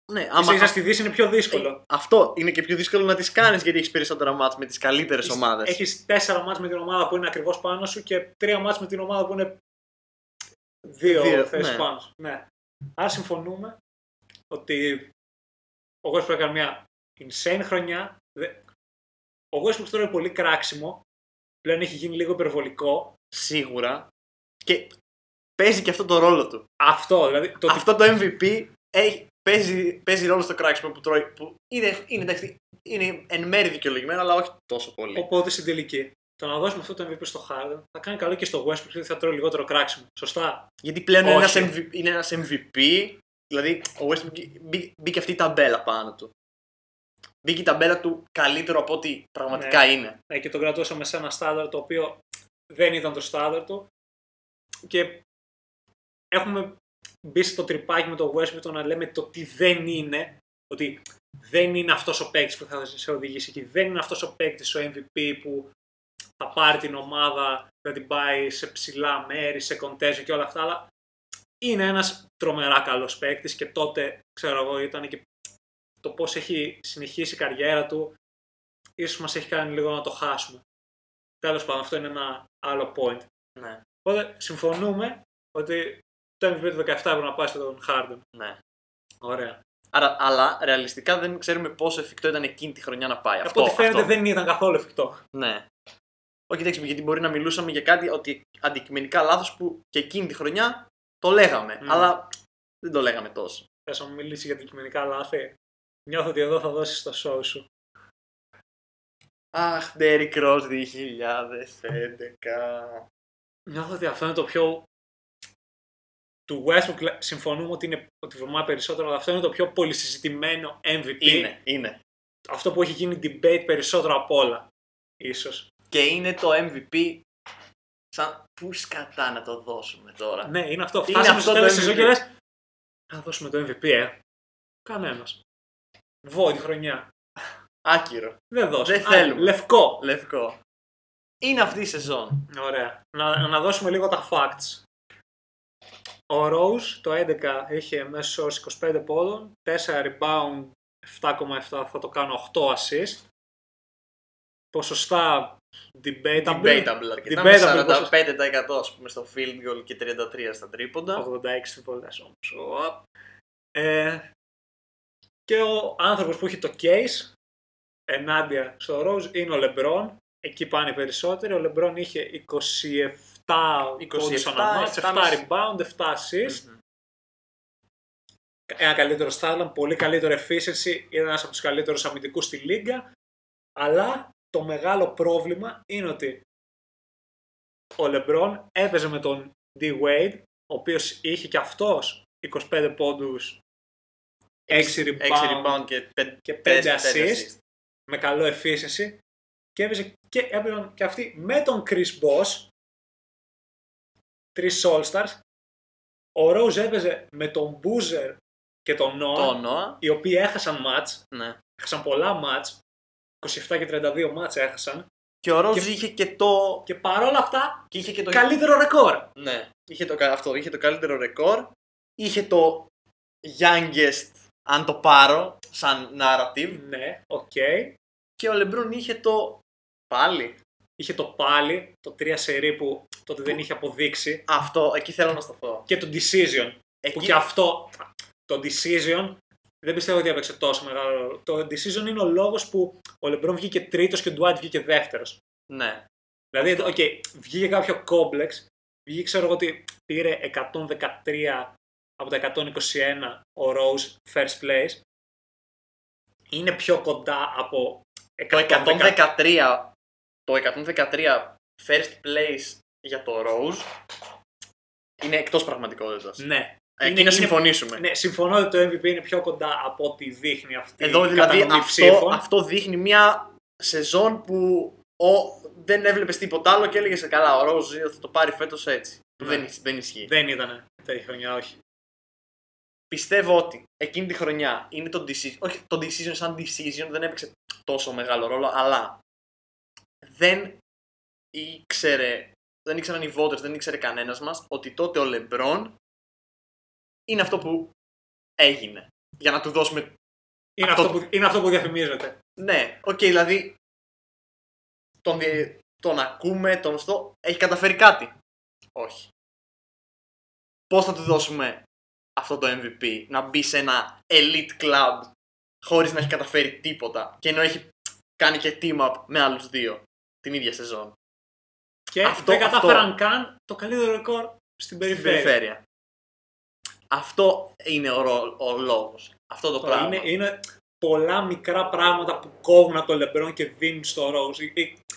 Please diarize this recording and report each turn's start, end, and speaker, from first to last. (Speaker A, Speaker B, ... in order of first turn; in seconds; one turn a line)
Speaker A: 0.1-0.8
Speaker B: 0.4-1.8
Speaker A: 1.5-5.8
Speaker B: 5.2-9.6
Speaker B: 10.9-12.4
Speaker A: 11.0-11.9
Speaker B: 13.0-13.8
Speaker B: 14.5-15.1
Speaker B: 16.0-18.6
Speaker B: 19.5-21.0
Speaker B: 21.6-23.1
Speaker A: 23.3-24.1
Speaker A: 24.6-25.0
Speaker A: 25.6-26.7
Speaker B: 26.8-27.9
Speaker A: 27.6-35.3
Speaker B: 35.1-40.7
Speaker A: 40.8-46.3
Speaker B: 41.2-41.7
Speaker A: 47.4-50.2
Speaker B: 49.5-52.2
Speaker B: 52.7-53.9
Speaker B: 54.9-55.2
Speaker B: 56.3-65.7
Speaker B: 66.4-70.9
Speaker B: 71.6-75.2
Speaker B: 76.0-78.2
Speaker B: 79.0-80.6
Speaker B: 81.4-83.3
Speaker A: 83.6-83.8
Speaker B: 84.0-88.2
Speaker A: 88.3-88.6
Speaker B: 89.2-89.6
Speaker A: 89.9-94.1
Speaker B: 93.5-95.2
Speaker A: 95.3-95.7
Speaker A: 96.5-103.7
Speaker B: 101.8-102.1
Speaker B: 103.9-105.6
Speaker B: 106.1-107.7
Speaker A: 109.5-113.1
Speaker B: 113.7-114.9
Speaker B: 116.5-121.5
Speaker A: 121.2-122.0
Speaker B: 122.5-124.7
Speaker B: 125.2-125.7
Speaker A: 125.9-127.2
Speaker A: 128.1-130.5
Speaker B: 130.4-132.3
Speaker A: 131.1-132.2
Speaker B: 133.1-134.2
Speaker B: 134.9-135.4
Speaker B: 136.2-137.1
Speaker A: 137.8-140.6
Speaker B: 138.5-140.0
Speaker A: 141.4-142.4
Speaker B: 142.5-144.8
Speaker B: 146.3-153.3
Speaker B: 154.7-158.1
Speaker A: 156.4-161.2
Speaker B: 161.2-163.0
Speaker B: 163.8-164.3
Speaker B: 165.5-167.3
Speaker B: 168.1-176.6
Speaker A: 174.0-175.4
Speaker A: 176.4-176.8
Speaker B: 178.7-183.1
Speaker B: 183.8-186.4
Speaker B: 188.0-193.6
Speaker A: 194.7-197.6
Speaker B: 194.7-195.8
Speaker B: 196.5-197.5
Speaker B: 198.1-199.2
Speaker B: 199.8-202.7
Speaker B: 204.6-205.4
Speaker B: 206.4-211.2
Speaker A: 209.3-210.0
Speaker A: 211.3-211.6
Speaker B: 211.8-212.8
Speaker B: 213.4-215.1
Speaker A: 215.4-216.9
Speaker B: 216.9-219.3
Speaker A: 217.9-218.5
Speaker A: 219.4-222.9
Speaker A: 223.4-226.8
Speaker B: 226.7-227.9
Speaker A: 228.4-230.6
Speaker B: 231.0-234.4
Speaker A: 234.5-235.9
Speaker B: 235.9-245.4
Speaker A: 237.0-237.4
Speaker A: 245.7-246.1
Speaker B: 246.5-255.0
Speaker A: 246.6-247.0
Speaker B: 256.5-259.2
Speaker A: 258.5-259.9
Speaker A: 260.5-263.9
Speaker A: 265.2-266.4
Speaker B: 266.4-272.4
Speaker A: 267.0-268.0
Speaker A: 271.0-280.3
Speaker B: 279.4-279.7
Speaker B: 280.3-281.8
Speaker A: 283.1-289.2
Speaker A: 290.2-290.8
Speaker A: 291.5-296.0
Speaker A: 297.3-297.9
Speaker A: 298.6-300.1
Speaker B: 300.8-302.4
Speaker A: 300.8-301.2
Speaker A: 302.6-303.8
Speaker A: 305.2-308.3
Speaker A: 308.9-309.3
Speaker A: 310.9-311.9
Speaker A: 312.4-315.3
Speaker A: 315.8-321.1
Speaker B: 322.1-325.6
Speaker A: 322.2-323.1
Speaker A: 325.1-325.8
Speaker A: 327.1-330.3
Speaker B: 329.8-335.0